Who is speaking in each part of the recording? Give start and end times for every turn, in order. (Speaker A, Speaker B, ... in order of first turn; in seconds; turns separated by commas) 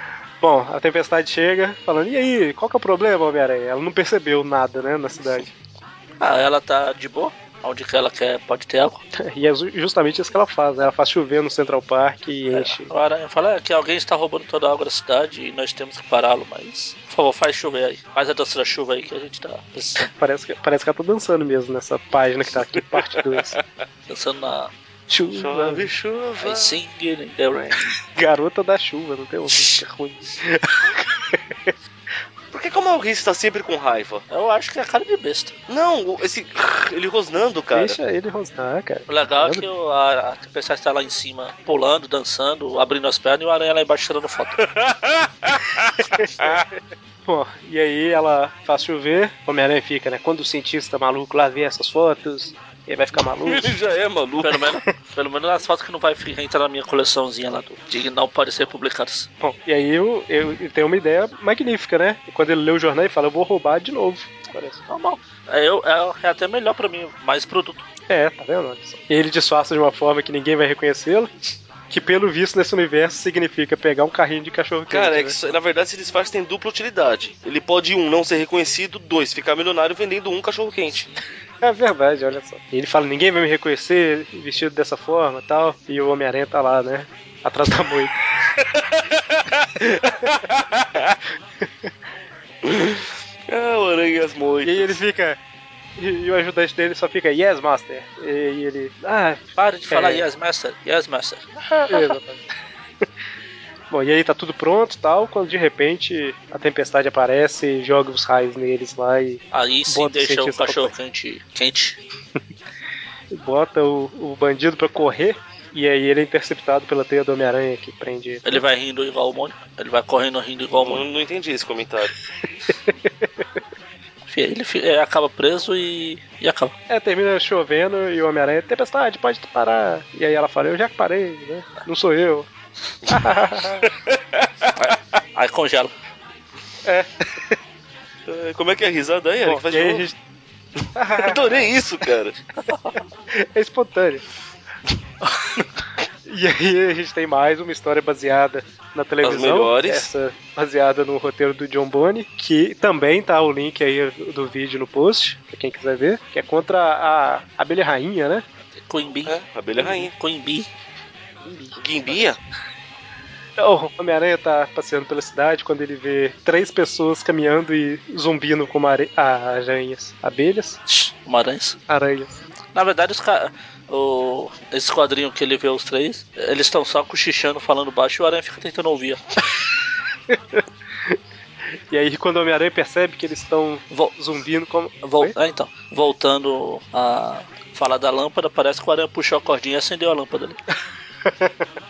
Speaker A: 0.4-5.5, Speaker B: 6.2-9.0, Speaker A: 9.2-12.9, Speaker B: 12.5-20.1, Speaker A: 20.0-23.6, Speaker C: 22.8-23.6, Speaker B: 24.1-24.7, Speaker A: 25.1-25.9, Speaker C: 25.3-26.8, Speaker B: 26.4-28.0, Speaker A: 28.1-31.7, Speaker C: 32.5-34.2, Speaker B: 34.3-35.5, Speaker C: 35.7-38.0, Speaker A: 37.7-39.7, Speaker B: 39.1-44.6, Speaker C: 44.8-46.5, Speaker A: 46.1-46.6, Speaker A: 47.3-53.7, Speaker C: 53.4-54.7, Speaker B: 54.4-59.3, Speaker A: 59.4-64.8, Speaker B: 64.9-67.9, Speaker A: 68.1-71.3, Speaker A: 71.9-75.4, Speaker C: 74.9-81.0, Speaker A: 81.6-88.1, Speaker C: 88.6-91.2, Speaker C: 92.6-95.0, Speaker A: 94.6-95.4, Speaker A: 96.0-100.2, Speaker B: 99.6-101.4, Speaker A: 101.9-102.4, Speaker A: 103.9-110.9, Speaker B: 109.5-112.0, Speaker A: 113.3-118.6, Speaker B: 118.5-121.0, Speaker C: 120.8-122.1, Speaker B: 124.3-126.7, Speaker A: 126.9-132.5, Speaker A: 133.1-133.9, Speaker C: 134.1-134.7, Speaker B: 134.8-135.9, Speaker A: 136.8-137.6, Speaker C: 138.3-140.1, Speaker A: 139.4-140.2, Speaker A: 140.9-141.7, Speaker C: 141.2-142.3, Speaker B: 142.7-143.0, Speaker A: 143.3-144.2, Speaker A: 146.3-158.4, Speaker C: 149.2-150.1, Speaker B: 158.7-160.7, Speaker C: 159.3-160.1, Speaker A: 161.4-162.3, Speaker C: 161.8-162.4, Speaker A: 163.6-170.8, Speaker B: 170.9-171.8, Speaker A: 171.9-172.4, Speaker B: 172.7-179.2, Speaker A: 180.3-181.2, Speaker A: 181.9-185.3, Speaker B: 185.0-190.6, Speaker A: 191.2-191.7